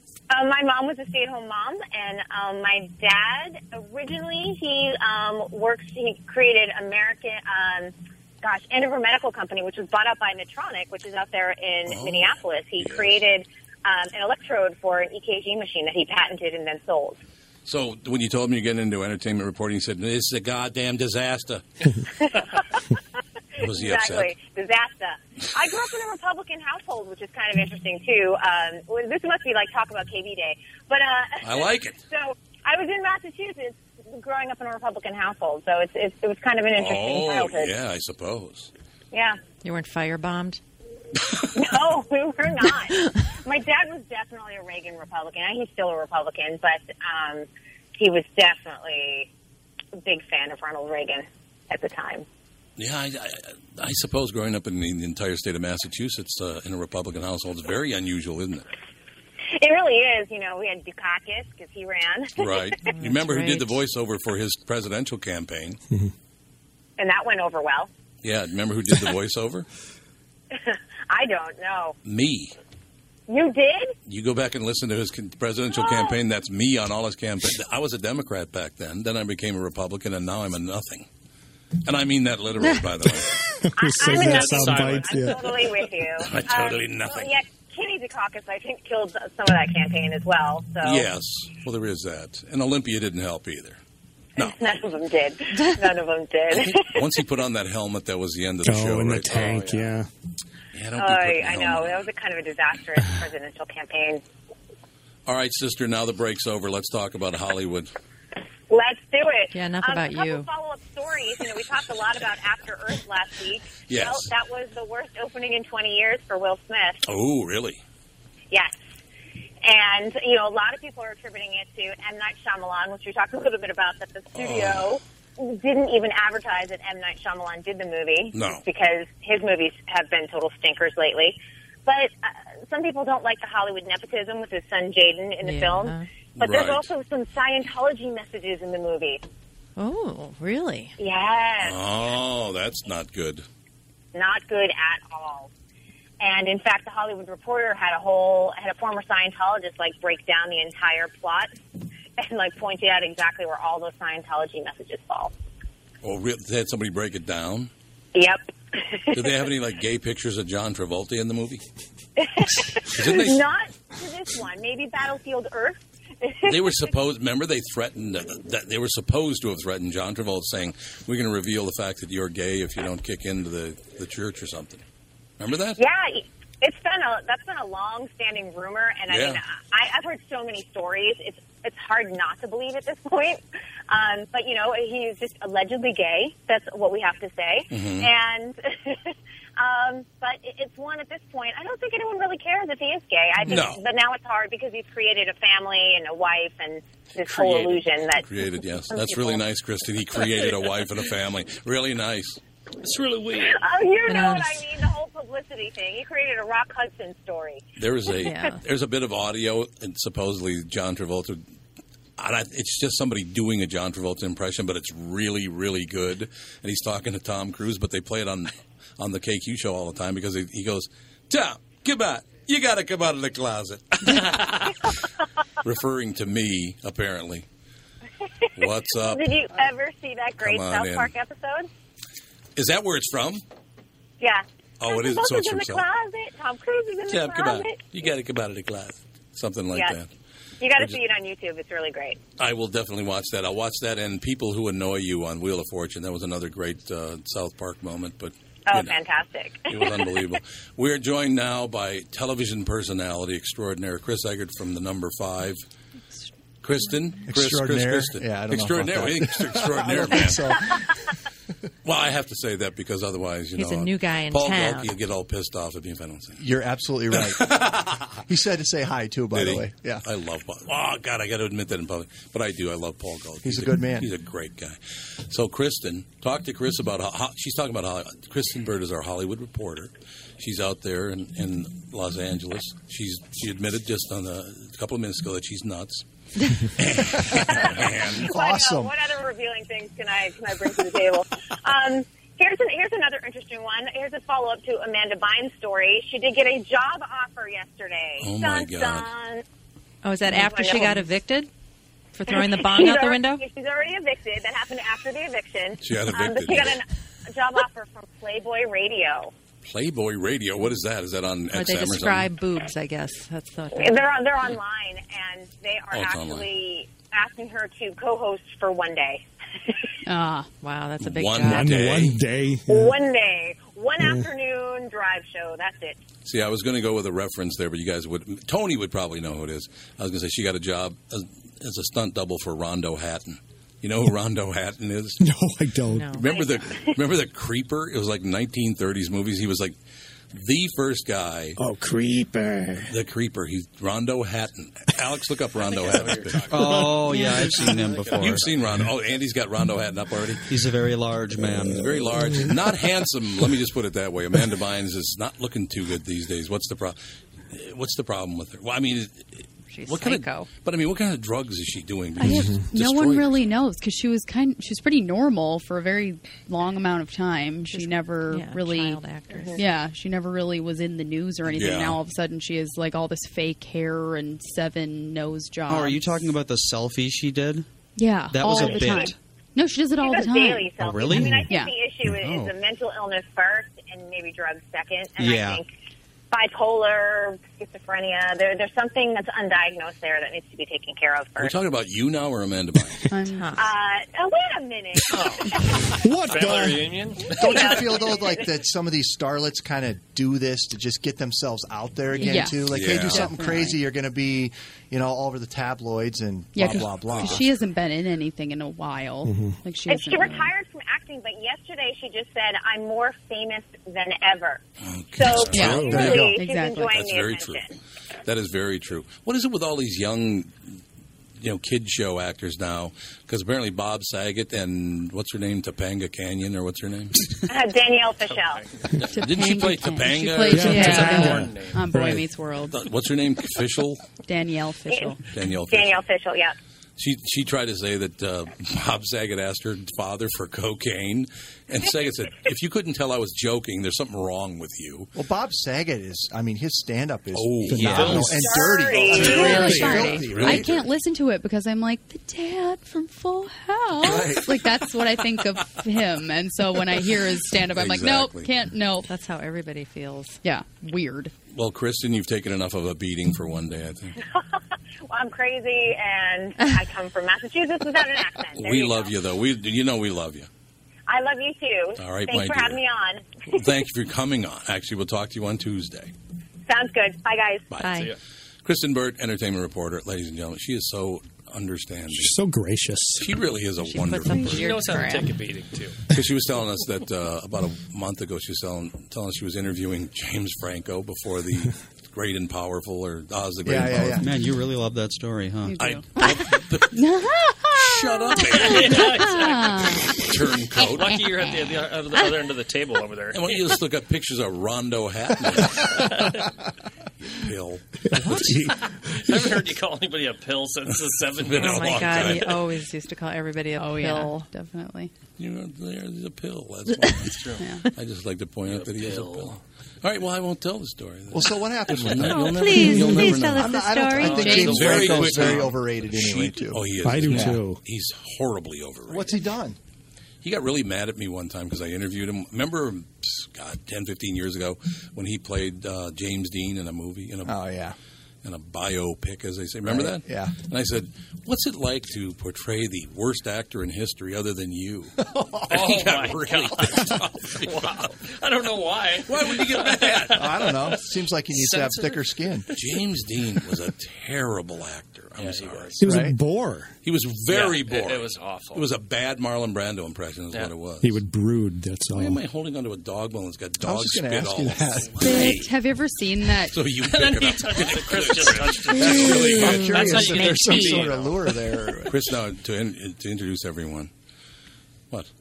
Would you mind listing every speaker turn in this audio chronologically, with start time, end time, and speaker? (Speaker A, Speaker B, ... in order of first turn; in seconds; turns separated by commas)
Speaker A: 0.3-17.2, Speaker B: 11.9-13.2, Speaker B: 17.7-21.6, Speaker A: 22.2-22.8, Speaker B: 23.6-24.3, Speaker A: 23.6-37.7, Speaker B: 31.4-32.0, Speaker B: 36.8-38.7, Speaker A: 39.1-39.4, Speaker C: 39.6-40.6, Speaker A: 41.5-49.3, Speaker A: 50.0-52.3, Speaker B: 52.8-58.7, Speaker A: 59.5-62.7, Speaker B: 62.4-65.8, Speaker C: 63.0-63.8, Speaker A: 67.0-67.9, Speaker B: 68.2-69.7, Speaker A: 70.5-72.0, Speaker B: 72.0-72.5, Speaker A: 73.3-74.0, Speaker B: 74.1-81.1, Speaker A: 75.8-76.2, Speaker B: 81.8-83.3, Speaker D: 83.6-85.6, Speaker A: 83.8-91.1, Speaker E: 84.1-85.6, Speaker B: 86.2-87.3, Speaker B: 90.8-93.8, Speaker A: 94.4-97.0, Speaker B: 96.5-99.7, Speaker D: 98.6-100.1, Speaker E: 99.3-99.8, Speaker B: 100.7-102.1, Speaker A: 101.0-104.2, Speaker B: 105.3-107.9, Speaker A: 108.7-117.1, Speaker C: 109.5-110.5, Speaker B: 113.9-114.3, Speaker B: 117.1-117.8, Speaker A: 119.6-139.2, Speaker B: 124.3-124.9, Speaker B: 128.3-128.6, Speaker C: 135.4-136.1, Speaker B: 136.4-136.9, Speaker C: 139.8-140.9, Speaker A: 141.0-141.8, Speaker B: 141.6-143.4, Speaker A: 144.1-145.5, Speaker A: 146.2-151.6, Speaker A: 152.2-155.3, Speaker B: 156.0-157.7, Speaker A: 158.2-159.4, Speaker B: 159.1-161.6, Speaker A: 162.2-166.8, Speaker B: 162.9-163.4, Speaker B: 166.5-174.8, Speaker B: 175.4-175.8, Speaker A: 175.8-199.4, Speaker B: 179.1-179.4, Speaker B: 187.7-188.1, Speaker B: 193.5-193.8, Speaker E: 197.3-197.8, Speaker B: 198.2-202.4, Speaker E: 202.8-203.6, Speaker A: 203.5-207.7, Speaker C: 204.1-204.6, Speaker B: 207.8-211.4, Speaker C: 208.1-208.6, Speaker B: 212.2-224.8, Speaker B: 225.6-227.5, Speaker B: 228.6-229.3, Speaker A: 228.6-231.7, Speaker B: 230.4-231.1, Speaker B: 232.6-233.4, Speaker A: 234.2-237.9, Speaker B: 234.8-235.8, Speaker B: 237.1-240.1, Speaker A: 240.6-242.2, Speaker B: 242.4-249.0, Speaker A: 248.7-250.2, Speaker B: 249.7-255.6, Speaker B: 256.6-260.8, Speaker F: 257.3-260.9, Speaker B: 261.8-266.5, Speaker C: 263.6-265.0, Speaker F: 266.4-267.6, Speaker B: 267.1-268.2, Speaker F: 268.3-270.1, Speaker B: 269.3-288.3, Speaker F: 273.4-274.1, Speaker A: 287.5-299.4, Speaker F: 288.2-288.9, Speaker B: 298.2-299.1, Speaker C: 300.0-301.5, Speaker A: 300.3-301.1, Speaker C: 302.1-303.4, Speaker A: 302.3-309.3, Speaker B: 305.8-306.8, Speaker B: 309.6-312.3, Speaker C: 311.5-314.0, Speaker A: 313.7-319.8, Speaker B: 315.9-316.5, Speaker G: 320.1-320.5, Speaker C: 320.6-321.9, Speaker B: 321.0-322.2, Speaker D: 321.4-323.0, Speaker A: 322.7-326.0, Speaker B: 326.2-335.2, Speaker D: 335.2-336.1, Speaker C: 335.9-336.4, Speaker B: 336.1-339.8, Speaker A: 336.3-336.9, Speaker B: 340.3-341.6, Speaker D: 341.6-343.0, Speaker B: 342.9-346.5, Speaker E: 345.6-348.8, Speaker H: 346.5-348.4, Speaker G: 346.7-347.8, Speaker B: 348.2-350.5, Speaker H: 350.5-351.9, Speaker B: 351.7-357.0, Speaker B: 357.5-363.5, Speaker C: 359.7-360.5, Speaker G: 362.2-376.0, Speaker D: 362.3-362.7, Speaker C: 367.7-369.6, Speaker B: 371.5-372.0, Speaker H: 375.7-377.7, Speaker G: 378.0-381.8, Speaker H: 378.3-379.2, Speaker A: 378.4-379.1, Speaker A: 380.0-385.7, Speaker H: 380.8-381.5, Speaker H: 382.1-382.5, Speaker H: 385.2-385.6, Speaker A: 386.3-391.6, Speaker B: 391.4-393.0, Speaker G: 393.1-393.6, Speaker C: 393.3-393.7, Speaker A: 393.6-395.9, Speaker E: 395.1-395.5, Speaker D: 396.0-397.0, Speaker E: 396.3-397.8, Speaker A: 397.3-398.5, Speaker F: 397.4-407.5, Speaker G: 402.1-403.8, Speaker C: 402.2-402.4, Speaker B: 402.6-403.3, Speaker G: 406.5-410.5, Speaker B: 407.1-407.4, Speaker D: 409.2-409.6, Speaker A: 409.9-414.6, Speaker B: 414.8-417.6, Speaker A: 415.2-417.6, Speaker G: 415.5-416.9, Speaker D: 415.6-415.9, Speaker F: 415.9-416.4, Speaker B: 418.2-420.8, Speaker B: 421.4-427.2, Speaker A: 427.5-428.6, Speaker E: 428.3-429.2, Speaker G: 429.1-432.9, Speaker B: 429.1-431.1, Speaker D: 430.4-432.3, Speaker E: 430.5-431.8, Speaker B: 432.7-434.0, Speaker G: 434.2-435.2, Speaker B: 435.3-436.0, Speaker A: 435.7-436.5, Speaker B: 437.0-445.1, Speaker F: 445.1-450.8, Speaker B: 447.3-448.4, Speaker D: 447.7-448.5, Speaker E: 447.8-449.4, Speaker A: 448.3-450.0, Speaker G: 449.2-459.1, Speaker B: 449.2-450.9, Speaker D: 449.5-450.0, Speaker F: 454.0-454.6, Speaker B: 457.7-458.5, Speaker C: 459.1-460.4, Speaker G: 460.4-461.3, Speaker B: 461.5-464.2, Speaker A: 464.3-469.1, Speaker B: 468.5-470.5, Speaker A: 471.1-473.5, Speaker B: 472.0-472.8, Speaker B: 473.5-476.1, Speaker A: 476.7-477.8, Speaker B: 477.7-478.1, Speaker C: 477.8-478.1, Speaker B: 478.6-482.3, Speaker D: 482.1-483.4, Speaker B: 483.2-484.7, Speaker C: 483.8-485.4, Speaker E: 484.5-486.0, Speaker B: 486.1-494.2, Speaker F: 493.6-494.3, Speaker H: 494.2-495.8, Speaker G: 495.6-500.2, Speaker B: 495.8-497.0, Speaker B: 497.7-499.4, Speaker E: 498.6-500.2, Speaker B: 500.1-501.2, Speaker E: 500.8-503.8, Speaker B: 503.3-506.3, Speaker E: 505.8-506.5, Speaker B: 507.2-508.5, Speaker D: 508.1-508.8, Speaker E: 508.3-512.6, Speaker B: 511.4-512.6, Speaker C: 511.6-514.5, Speaker G: 513.8-515.1, Speaker B: 515.4-517.4, Speaker C: 517.0-517.3, Speaker E: 517.3-517.8, Speaker G: 517.6-517.9, Speaker B: 517.9-529.4, Speaker E: 518.7-519.6, Speaker F: 521.3-527.6, Speaker C: 522.2-524.6, Speaker E: 524.1-525.8, Speaker G: 524.3-525.1, Speaker D: 527.0-527.8, Speaker F: 529.1-529.8, Speaker B: 530.4-537.6, Speaker F: 537.5-538.0, Speaker B: 538.4-548.1, Speaker F: 539.8-540.6, Speaker F: 545.2-545.9, Speaker E: 545.7-552.9, Speaker B: 549.3-550.9, Speaker F: 550.3-552.7, Speaker B: 552.7-556.2, Speaker E: 555.4-556.3, Speaker D: 556.0-556.9, Speaker F: 556.0-556.4, Speaker B: 557.0-561.2, Speaker E: 557.5-558.9, Speaker D: 561.0-562.4, Speaker B: 562.1-565.8, Speaker F: 563.8-565.2, Speaker G: 565.1-566.8, Speaker B: 566.6-571.1, Speaker E: 567.0-571.9, Speaker G: 569.0-569.5, Speaker F: 569.2-572.2, Speaker B: 572.1-574.1